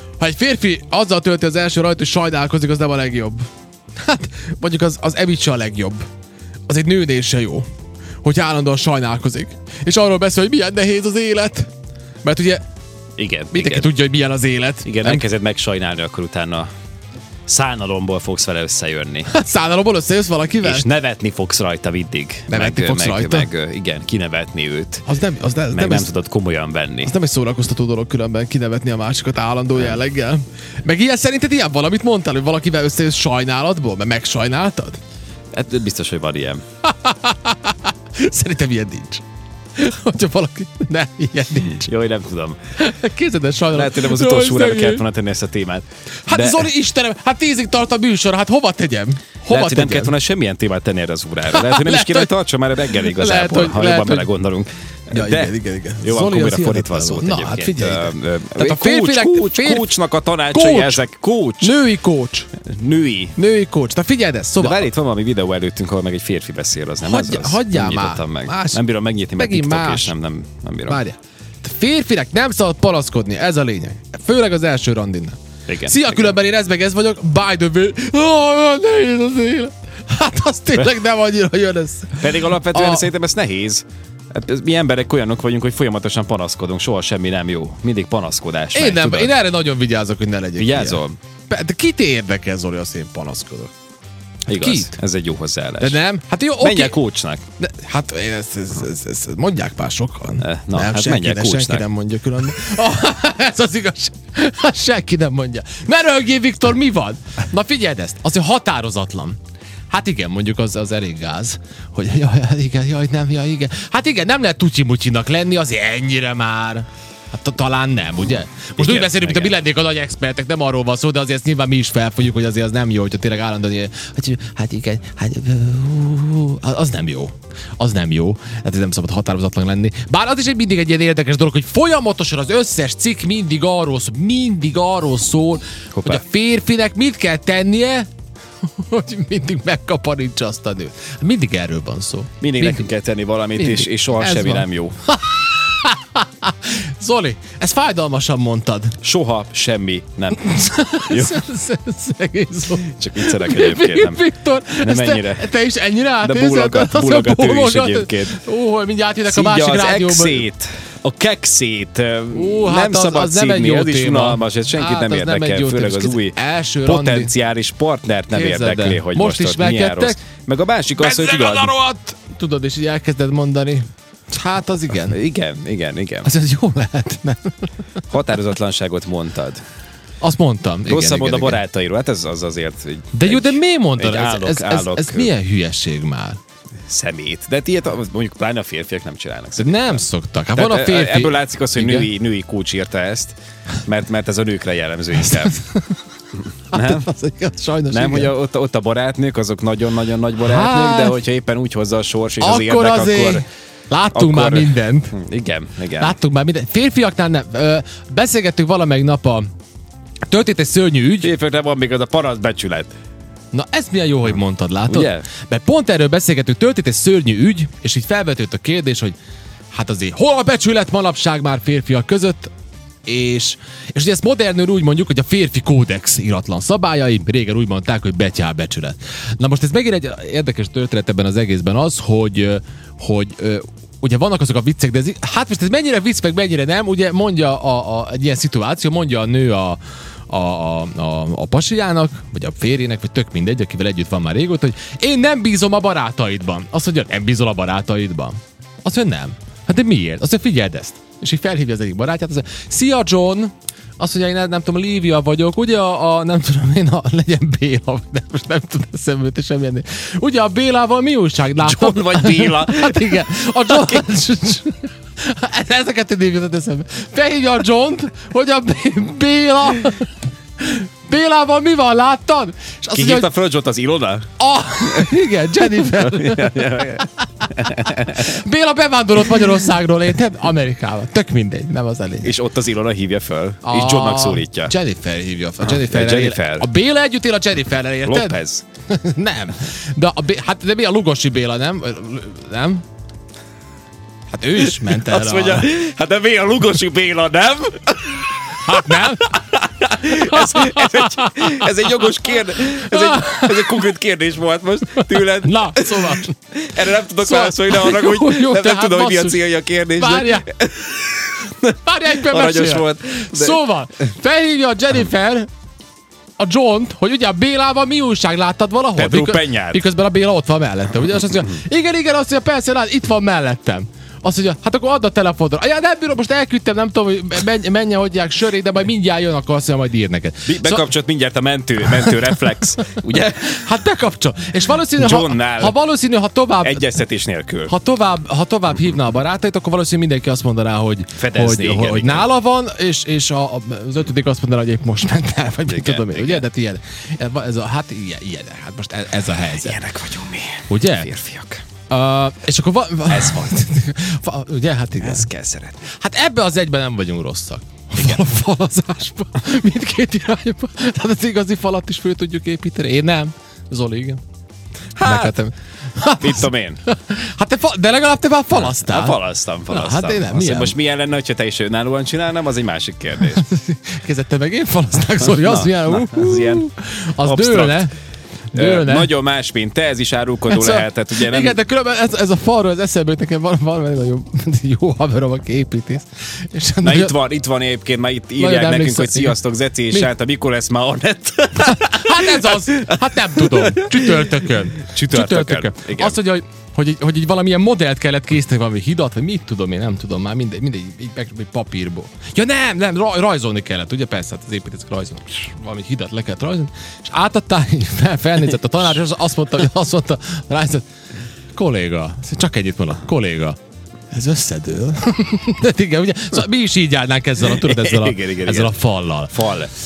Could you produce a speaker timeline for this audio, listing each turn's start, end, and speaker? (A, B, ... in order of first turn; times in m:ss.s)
0:00.2-0:03.4 A
0:04.0-0:06.0 A
0:06.7-0:07.6 A
0:08.2-0:11.7 A
0:12.2-0:12.6 A
0:13.2-0:13.9 B
0:13.5-0:15.2 A
0:14.8-0:16.7 B
0:17.5-0:19.3 B
0:19.3-0:20.9 A
0:20.6-0:25.0 B
0:22.5-0:23.5 A
0:25.1-0:26.1 A
0:25.7-0:27.2 B
0:27.0-0:35.0 A
0:35.5-0:36.6 B
0:36.8-0:39.2 A
0:39.7-0:41.9 A
0:41.6-0:42.6 B
0:42.8-0:45.0 A
0:43.7-0:46.7 B
0:46.3-0:50.1 A
0:49.5-1:01.7 B
0:51.5-0:52.3 A
0:52.8-0:54.3 A
0:55.1-0:59.9 A
1:00.5-1:01.0 A
1:01.6-1:02.5 A
1:02.6-1:03.4 B
1:03.4-1:04.9 A
1:04.6-1:11.0 B
1:07.0-1:08.8 A
1:09.4-1:10.1 A
1:10.9-1:23.1 A
1:15.7-1:16.4 B
1:22.2-1:29.3 B
1:28.7-1:33.7 A
1:30.6-1:31.2 B
1:34.5-1:36.0 B
1:34.5-1:34.9 A
1:35.8-1:37.0 A
1:36.6-1:37.4 B
1:37.6-1:49.4 A
1:40.4-1:41.8 B
1:49.9-2:18.1 A
1:58.8-1:59.6 B
2:16.0-2:16.2 B
2:18.6-2:22.9 A
2:22.4-2:25.0 B
2:23.6-2:29.0 A
2:29.0-2:30.5 B
2:30.4-2:40.5 A
2:31.1-2:31.4 B
2:32.8-2:34.2 B
2:34.8-2:35.5 B
2:36.2-2:38.4 B
2:39.3-2:51.7 B
2:42.3-2:47.3 A
2:48.3-2:50.2 A
2:51.0-2:55.2 A
2:55.1-2:56.3 B
2:56.2-2:57.7 A
2:58.1-2:59.6 B
3:00.2-3:01.6 A
3:00.9-3:05.3 B
3:03.1-3:06.4 A
3:06.9-3:15.6 B
3:09.6-3:12.1 A
3:15.2-3:16.0 A
3:16.7-3:18.3 A
3:16.7-3:17.1 B
3:17.9-3:23.4 B
3:20.4-3:21.2 A
3:22.4-3:25.2 A
3:24.1-3:26.2 B
3:26.0-3:29.5 A
3:30.3-3:31.3 A
3:31.2-3:32.9 B
3:33.5-3:39.2 A
3:34.9-3:35.3 B
3:39.7-3:42.5 A
3:43.1-4:33.3 A
4:21.6-4:24.1 B
4:32.9-4:34.3 B
4:34.4-4:42.4 A
4:34.8-4:38.3 B
4:42.2-4:44.7 B
4:43.6-4:52.8 A
4:45.6-4:46.7 B
4:48.0-4:48.6 B
4:54.3-4:55.7 A
4:54.6-5:13.6 B
4:58.6-4:59.4 A
5:00.0-5:01.7 A
5:02.8-5:03.9 A
5:04.9-5:06.4 A
5:07.2-5:10.5 A
5:11.6-5:15.5 A
5:16.4-5:30.9 A
5:19.0-5:19.8 B
5:30.5-5:33.6 B
5:31.8-5:37.0 A
5:35.0-5:35.8 B
5:36.6-5:37.7 B
5:37.7-5:49.8 A
5:41.1-5:42.3 B
5:45.6-5:46.4 B
5:49.5-5:51.6 B
5:50.7-5:51.1 A
5:51.9-5:55.3 A
5:53.1-5:53.5 B
5:55.0-5:55.9 B
5:55.9-6:04.2 A
6:05.0-6:05.4 B
6:05.0-6:10.8 A
6:06.2-6:06.8 B
6:08.5-6:13.5 B
6:13.2-6:17.9 A
6:15.2-6:16.6 B
6:17.2-6:17.9 B
6:18.5-6:19.1 A
6:18.5-6:21.6 B
6:20.5-6:27.1 A
6:26.8-6:36.2 B
6:28.4-6:29.4 A
6:31.6-6:50.9 A
6:51.5-6:53.6 A
6:54.1-6:59.4 A
6:57.4-6:59.7 B